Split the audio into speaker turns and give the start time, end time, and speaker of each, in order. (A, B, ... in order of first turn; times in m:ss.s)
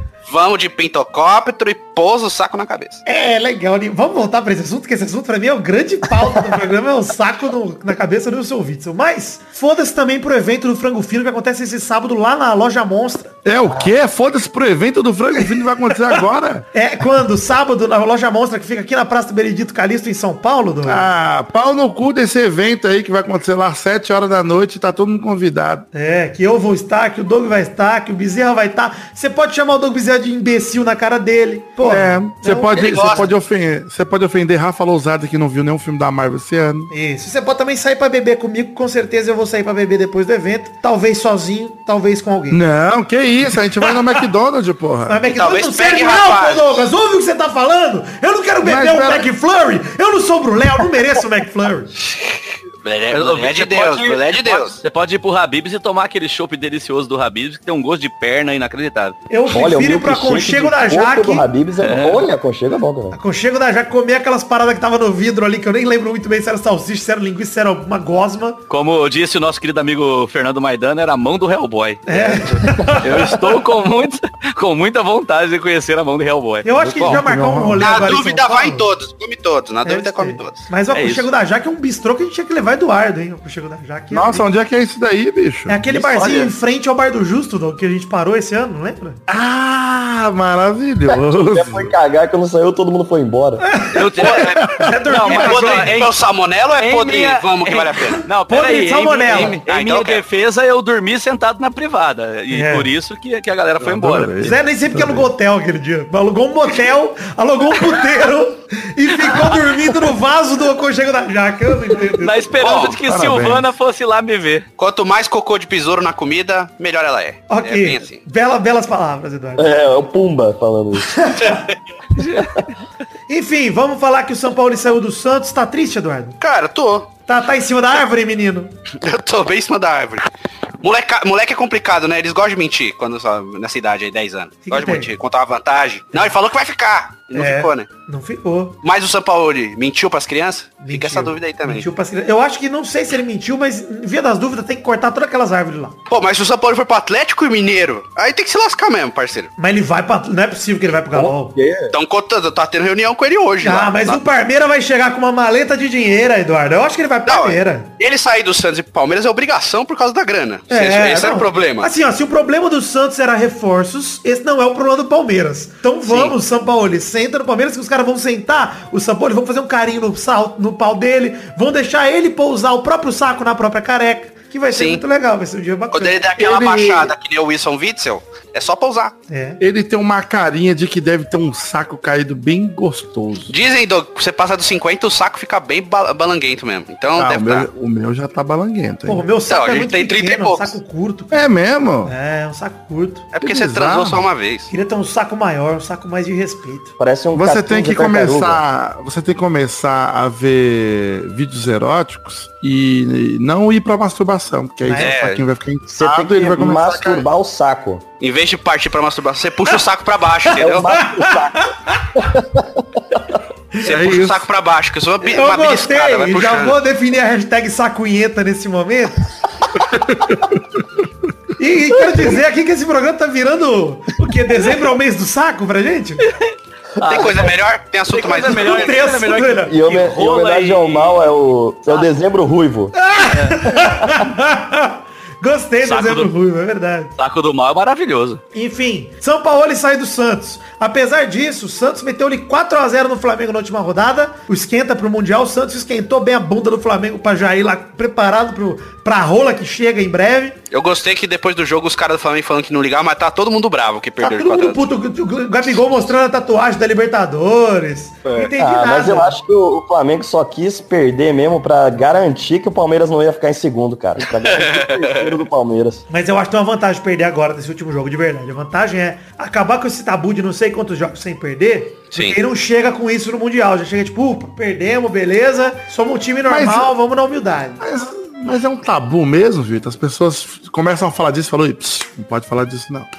0:00.3-0:03.0 A
0:03.1-0:13.4 B
0:13.4-0:16.7 C
0:15.4-0:16.2 B
0:16.7-0:21.0 B
0:20.9-0:25.9 C
0:25.9-0:33.3 B
0:31.8-0:36.9 C
0:32.7-0:33.3 A
0:36.9-0:42.6 B
0:42.5-0:45.2 C
0:45.1-0:51.9 B
0:45.3-0:46.9 A
0:48.6-0:49.3 C
0:52.8-0:54.8 A
0:53.1-0:59.2 D
0:59.3-1:01.5 B
0:59.5-1:03.2 E
1:01.8-1:02.3 D
1:03.1-1:08.6 B
1:08.7-1:17.2 D
1:12.1-1:13.4 B
1:16.6-1:18.8 B
1:17.0-1:18.1 C
1:17.8-1:20.6 A
1:19.8-1:24.4 B
1:20.9-1:21.3 D
1:24.1-1:25.8 C
1:25.7-1:29.2 B
1:25.9-1:26.5 E
1:29.3-1:31.9 C
1:31.1-1:33.7 E
1:33.6-1:36.0 B
1:33.9-1:36.2 D
1:34.2-1:34.6 A
1:34.4-1:34.9 C
1:35.3-1:38.3 A
1:36.8-1:44.5 D
1:38.5-1:39.6 B
1:39.3-1:40.2 A
1:42.5-1:42.9 B
1:43.8-1:45.3 C
1:44.4-1:52.5 B
1:52.2-1:54.6 D
1:52.6-1:53.0 A
1:53.0-1:53.7 C
1:54.8-1:58.2 A
1:57.5-1:59.7 B
1:59.6-2:01.2 E
2:01.1-2:01.6 B
2:03.3-2:06.4 B
2:06.4-2:07.1 A
2:07.3-2:08.7 B
2:09.0-2:10.3 A
2:10.8-2:17.9 A
2:14.7-2:15.1 B
2:17.3-2:18.8 B
2:18.8-2:21.9 A
2:20.8-2:26.0 B
2:26.1-2:29.5 A
2:29.6-2:31.6 B
2:31.1-2:32.0 E
2:31.9-2:34.2 A
2:33.6-2:37.9 B
2:37.3-2:41.9 A
2:40.7-2:56.4 B
2:46.1-2:46.4 A
2:54.7-2:55.0 A
2:55.9-2:59.2 A
2:56.4-2:57.1 C
2:59.3-2:59.6 B
2:59.6-3:03.5 C
3:03.5-3:07.7 A
3:07.2-3:09.2 C
3:09.0-3:11.5 B
3:09.5-3:10.8 A
3:11.3-3:12.1 C
3:12.0-3:13.3 B
3:13.3-3:14.7 A
3:13.4-3:14.3 C
3:14.7-3:16.9 B
3:17.0-3:18.6 E
3:17.3-3:27.2 C
3:24.8-3:25.1 B
3:25.0-3:25.4 A
3:25.9-3:28.0 E
3:28.2-3:30.9 A
3:30.6-3:33.2 E
3:30.9-3:32.0 B
3:33.8-3:34.4 C
3:33.8-3:36.8 A
3:35.2-3:39.2 B
3:39.9-3:40.6 C
3:41.6-3:46.3 B
3:47.0-3:47.5 D
3:47.0-3:47.5 E
3:47.1-3:49.1 A
3:48.1-3:51.2 D
3:48.4-3:49.7 B
3:49.7-3:52.9 E
3:53.0-3:57.1 B
3:53.3-3:53.7 D
3:55.8-3:56.3 D
3:57.2-3:58.4 D
3:58.5-4:10.6 B
4:10.7-4:14.8 A
4:14.2-4:19.4 B
4:18.6-4:26.0 E
4:24.3-4:25.3 A
4:26.1-4:37.8 B
4:32.1-4:32.4 A
4:36.5-4:36.9 C
4:37.8-4:43.1 C